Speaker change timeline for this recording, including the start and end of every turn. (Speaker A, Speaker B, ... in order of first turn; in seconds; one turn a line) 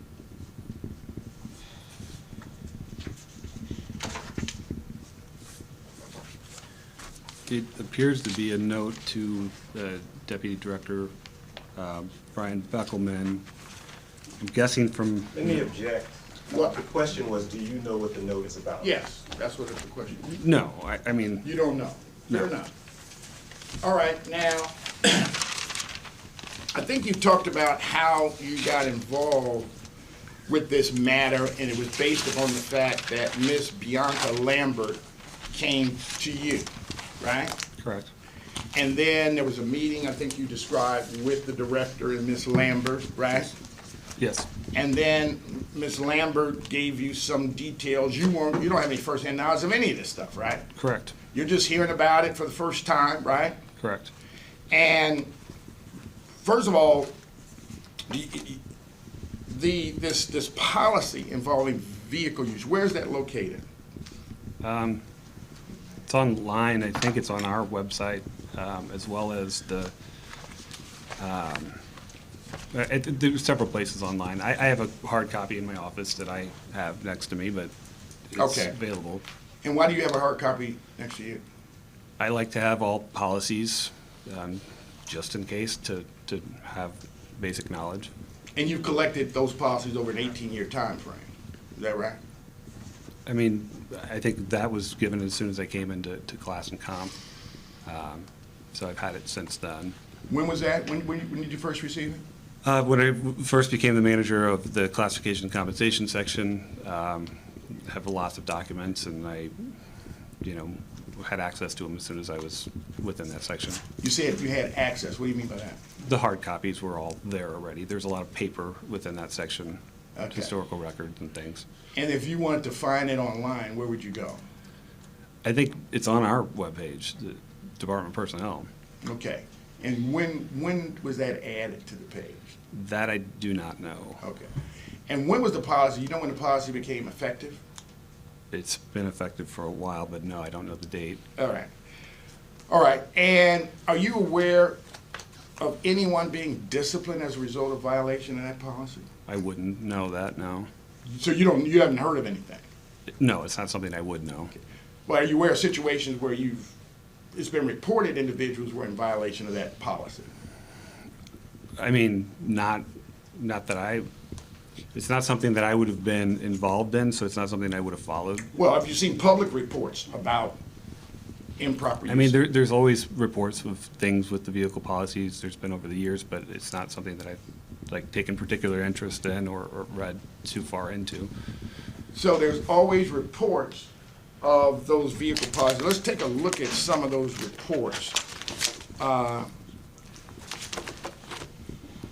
Speaker A: 7.5-11.1
Speaker A: 11.8-13.4
Speaker A: 14.4-15.5
Speaker B: 15.3-18.9
Speaker C: 18.8-20.2
Speaker A: 20.2-21.5
Speaker C: 21.4-22.7
Speaker C: 23.8-25.4
Speaker C: 26.7-29.7
Speaker C: 30.5-35.0
Speaker C: 35.5-36.7
Speaker C: 37.2-37.5
Speaker A: 37.8-38.1
Speaker C: 38.7-43.5
Speaker A: 44.2-44.5
Speaker C: 44.7-50.7
Speaker A: 50.8-51.1
Speaker C: 51.3-53.6
Speaker A: 53.8-54.1
Speaker C: 54.7-55.3
Speaker C: 56.4-57.1
Speaker C: 58.1-58.6
Speaker C: 59.5-63.6
Speaker A: 64.6-65.0
Speaker A: 66.1-69.9
Speaker A: 71.2-71.7
Speaker A: 72.7-77.7
Speaker A: 78.3-79.2
Speaker C: 78.3-78.8
Speaker C: 79.6-81.4
Speaker A: 82.2-88.1
Speaker C: 88.5-92.2
Speaker A: 93.2-97.1
Speaker A: 97.8-99.9
Speaker C: 100.3-102.2
Speaker A: 102.6-109.5
Speaker A: 110.4-113.8
Speaker C: 114.0-115.8
Speaker A: 116.0-119.8
Speaker C: 120.2-120.5
Speaker A: 120.3-121.6
Speaker C: 121.9-124.4
Speaker A: 125.4-128.7
Speaker C: 129.0-132.5
Speaker A: 132.7-134.2
Speaker C: 134.2-134.5
Speaker C: 135.1-137.6
Speaker A: 138.5-141.2
Speaker C: 141.4-141.7
Speaker C: 142.7-144.8
Speaker C: 145.6-149.1
Speaker A: 149.3-150.7
Speaker C: 151.1-152.6
Speaker A: 153.2-154.5
Speaker C: 155.1-156.7
Speaker C: 157.3-160.3
Speaker A: 161.8-164.1
Speaker A: 164.9-168.5
Speaker C: 168.5-170.6
Speaker C: 171.6-172.4
Speaker A: 172.1-181.3
Speaker C: 182.1-188.2
Speaker C: 189.0-189.5